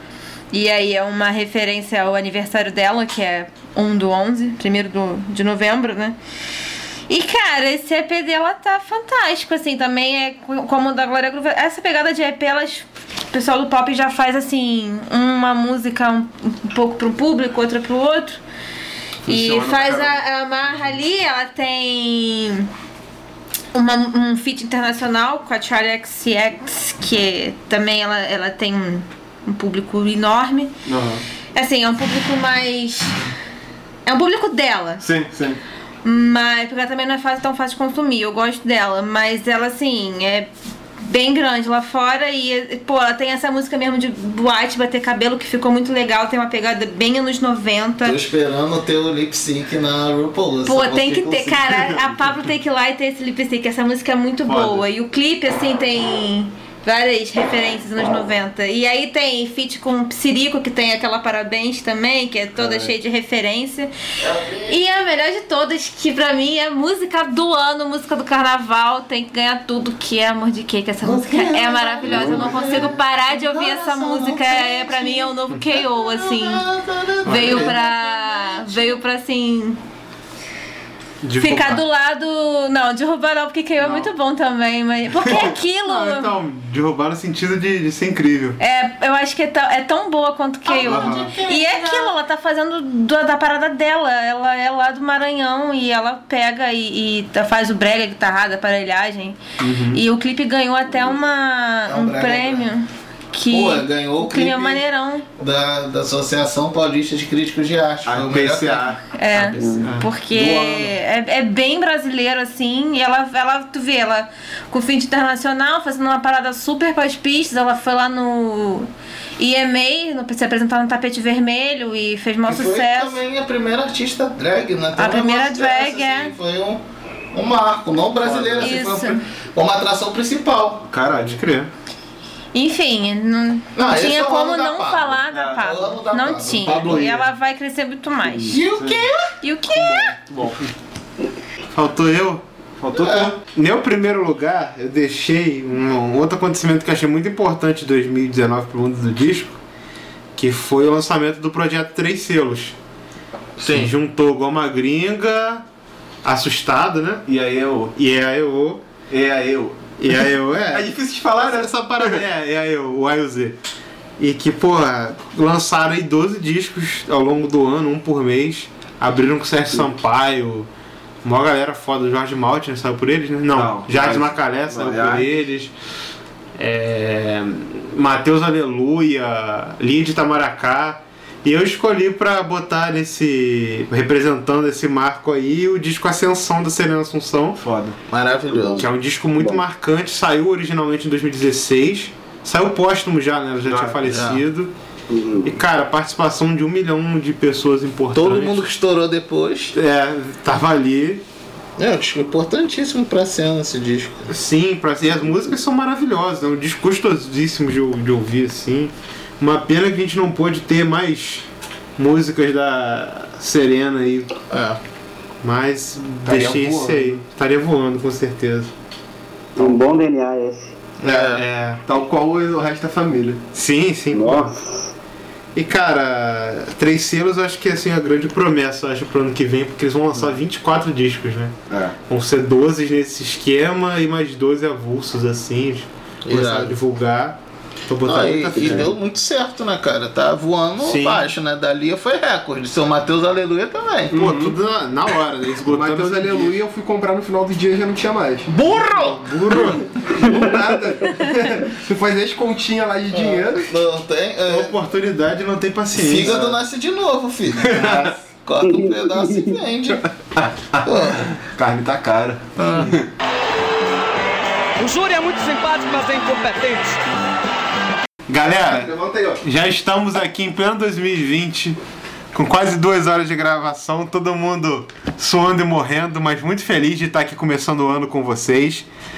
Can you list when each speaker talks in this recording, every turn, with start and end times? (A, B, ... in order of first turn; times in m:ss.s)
0:00.5-0:06.2 A
0:07.1-0:18.4 A
0:19.3-0:20.2 B
0:19.3-0:22.7 A
0:23.7-0:30.7 A
0:30.9-0:31.2 B
0:31.6-0:33.2 A
0:34.1-0:35.1 A
0:35.0-0:35.6 B
0:36.0-0:48.2 A
0:48.0-0:52.0 C
0:50.6-1:03.9 A
0:54.5-0:54.8 B
1:02.6-1:02.9 B
1:04.2-1:04.8 C
1:04.7-1:16.7 A
1:11.0-1:19.0 C
1:12.1-1:12.8 D
1:17.2-1:17.8 D
1:17.2-1:19.8 A
1:21.2-1:21.8 D
1:21.4-1:26.3 A
1:23.8-1:24.1 D
1:25.2-1:28.6 D
1:28.6-1:45.3 A
1:30.7-1:32.1 C
1:30.8-1:31.4 D
1:39.6-1:40.0 D
1:41.9-1:42.7 C
1:43.5-1:44.8 C
1:45.4-1:49.0 C
1:48.1-1:50.9 B
1:49.1-2:03.2 A
1:49.8-1:50.1 D
2:02.5-2:10.9 C
2:05.0-2:06.3 A
2:08.3-2:08.7 B
2:08.3-2:08.6 D
2:08.6-2:09.2 A
2:10.9-2:11.4 B
2:11.2-2:11.7 D
2:12.5-2:18.6 A
2:13.8-2:17.0 C
2:15.3-2:15.7 B
2:16.6-2:17.2 B
2:18.4-2:19.1 C
2:18.5-2:19.1 B
2:19.4-2:20.2 A
2:19.7-2:20.7 B
2:21.7-2:22.4 D
2:22.8-2:23.4 B
2:22.9-2:23.3 C
2:23.5-2:29.6 D
2:30.4-2:32.8 D
2:33.6-2:33.9 C
2:33.7-2:35.7 D
2:36.2-2:37.2 D
2:37.3-2:38.0 B
2:38.0-2:38.8 D
2:39.1-2:42.2 B
2:40.0-2:43.6 D
2:44.2-2:50.7 D
2:51.2-2:55.7 D
2:53.5-2:55.4 B
2:56.6-3:07.6 D
3:07.6-3:08.0 B
3:08.1-3:08.9 C
3:08.8-3:14.7 D
3:13.6-3:14.0 B
3:14.1-3:14.4 C
3:15.1-3:15.6 E
3:15.4-3:18.7 D
3:18.1-3:19.8 C
3:19.7-3:21.2 D
3:21.8-3:24.3 C
3:24.3-3:31.5 D
3:32.0-3:34.4 D
3:34.5-3:34.8 C
3:35.4-3:38.7 D
3:36.2-3:37.2 B
3:39.6-3:40.8 E
3:41.0-3:41.4 C
3:41.1-3:41.8 D
3:41.8-3:43.4 B
3:43.5-3:44.5 D
3:44.1-3:44.9 E
3:45.6-3:51.5 D
3:51.7-3:52.0 B
3:52.1-3:58.9 D
3:56.3-3:56.8 C
3:58.0-4:04.3 C
3:58.6-3:58.9 B
4:00.8-4:01.3 D
4:04.1-4:04.6 B
4:04.1-4:06.6 D
4:05.6-4:08.5 B
4:08.5-4:09.8 C
4:08.8-4:10.1 D
4:09.5-4:13.7 B
4:13.1-4:14.8 C
4:14.5-4:16.4 D
4:16.0-4:20.1 C
4:16.2-4:16.6 B
4:17.6-4:18.2 B
4:18.6-4:19.6 E
4:20.3-4:23.1 B
4:20.8-4:21.3 C
4:22.6-4:23.0 C
4:24.8-4:27.0 F
4:28.3-4:31.8 D
4:28.4-4:29.4 B
4:32.3-4:38.9 D